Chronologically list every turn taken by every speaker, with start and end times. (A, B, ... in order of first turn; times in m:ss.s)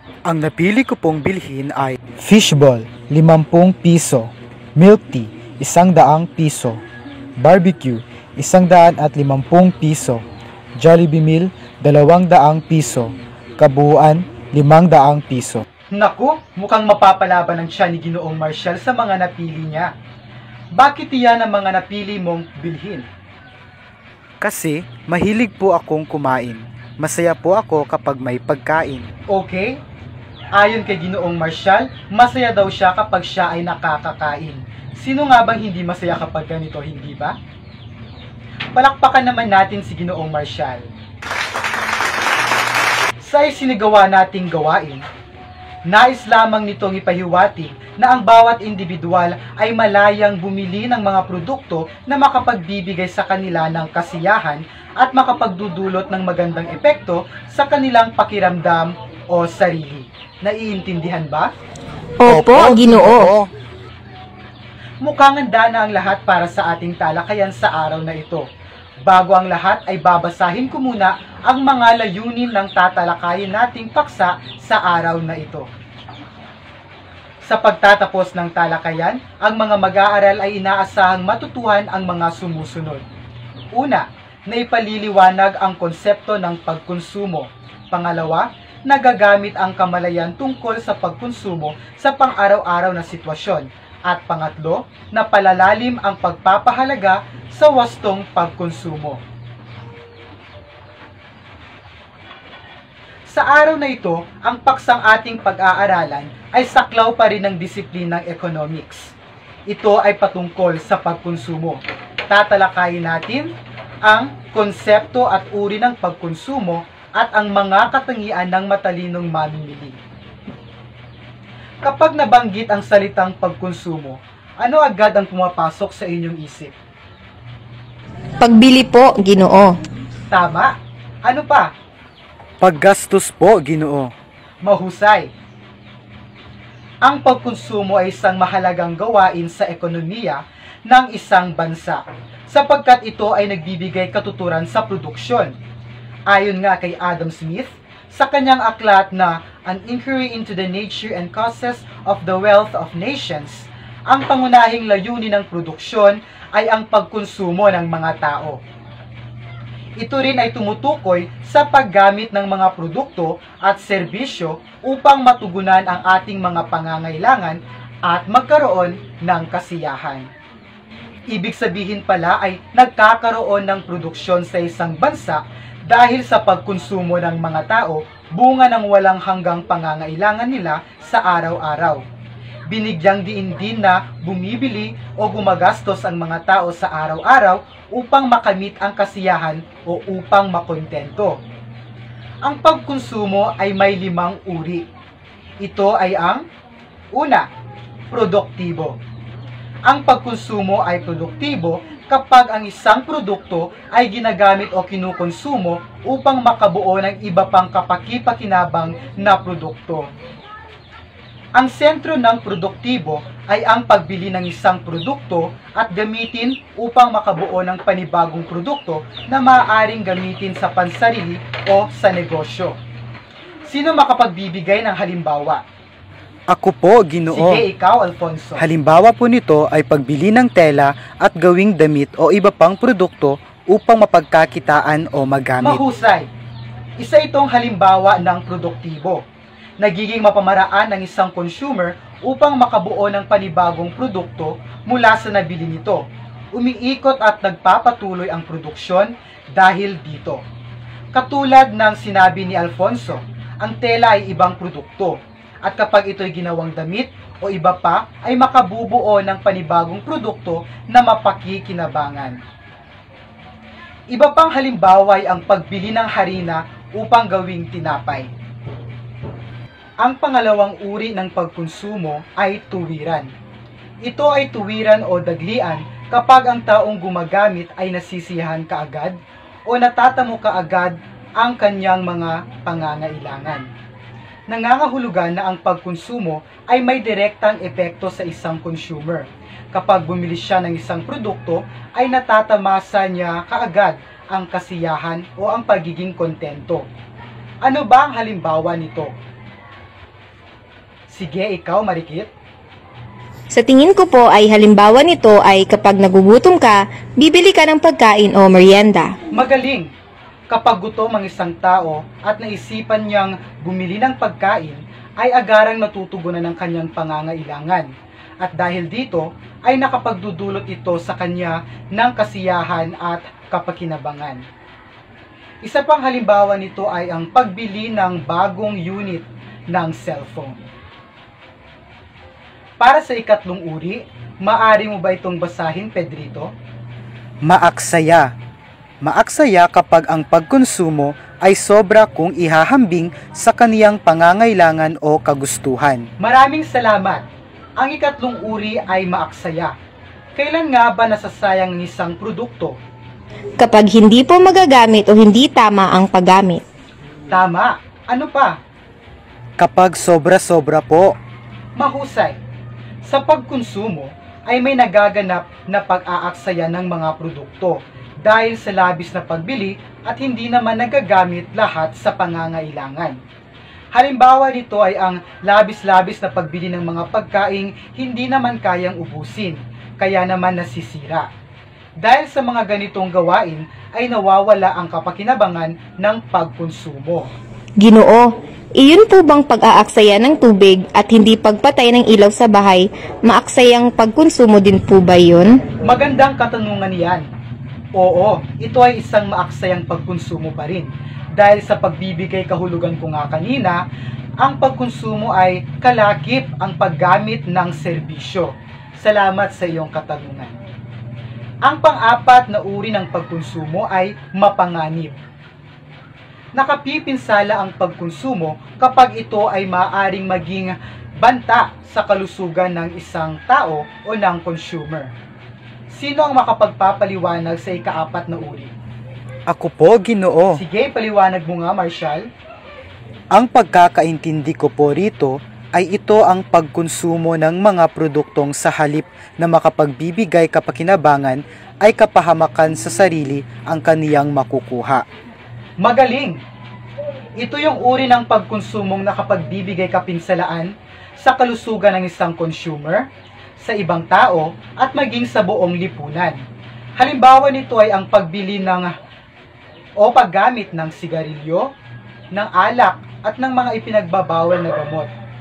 0:00.2-0:06.8 A
0:07.4-0:10.2 A
0:10.8-0:15.6 A
0:15.9-0:19.9 B
0:20.7-0:23.1 B
0:24.4-0:29.1 A
0:29.3-0:29.8 B
0:30.5-0:37.4 B
0:38.7-0:40.9 B
0:43.2-0:45.0 B
0:45.9-1:01.5 B
1:02.2-1:03.3 C
1:02.2-1:03.5 A
1:05.0-1:08.5 B
1:09.0-1:15.7 B
1:17.4-1:23.0 B
1:23.7-1:39.2 B
1:43.3-1:49.1 B
1:49.7-1:53.5 B
1:54.0-2:00.0 B
2:01.8-2:06.7 B
2:08.4-2:09.8 C
2:10.3-2:11.7 B
2:12.6-2:14.1 A
2:14.6-2:15.3 B
2:17.0-2:25.6 B
2:26.3-2:38.6 B
2:40.0-2:50.3 B
2:51.3-3:02.0 B
3:02.7-3:11.4 B
3:12.4-3:14.9 B
3:15.6-3:16.4 B
3:17.1-3:17.5 B
3:18.1-3:19.0 B
3:19.8-3:30.1 B
3:31.5-3:42.8 B
3:43.7-3:45.6 B
3:46.5-3:47.6 A
3:47.3-3:48.7 B
3:48.6-3:55.8 A
3:55.6-3:56.3 B
3:57.0-3:59.2 B
3:59.8-4:10.4 B
4:11.1-4:22.4 B
4:24.1-4:28.3 B
4:30.0-4:33.3 B
4:34.0-4:43.7 B
4:44.5-4:56.9 B
4:57.6-4:59.1 B
5:01.1-5:02.3 B
5:03.5-5:09.2 C
5:09.3-5:09.9 B
5:10.5-5:17.9 B
5:18.4-5:24.4 B
5:25.6-5:30.6 B
5:32.8-5:36.5 B
5:37.4-5:38.3 A
5:39.0-5:46.1 A
5:46.2-5:47.2 B
5:47.8-5:49.7 B
5:50.4-5:52.8 B
5:53.6-5:56.6 C
5:57.3-5:58.6 B
5:59.6-6:01.2 A
6:01.8-6:02.4 B
6:03.0-6:13.2 B
6:13.9-6:21.3 B
6:22.0-6:27.3 B
6:27.8-6:35.6 C
6:35.8-6:37.2 B
6:37.9-6:43.8 B
6:44.4-6:50.5 B
6:51.6-6:55.2 B
6:56.5-7:05.1 B
7:05.9-7:08.7 B
7:09.5-7:10.6 A
7:10.5-7:12.2 B
7:13.3-7:25.0 A
7:25.8-7:26.4 B
7:27.4-7:33.1 B
7:33.6-7:36.4 B
7:37.0-7:38.9 B
7:40.0-7:41.7 B
7:42.3-7:45.1 B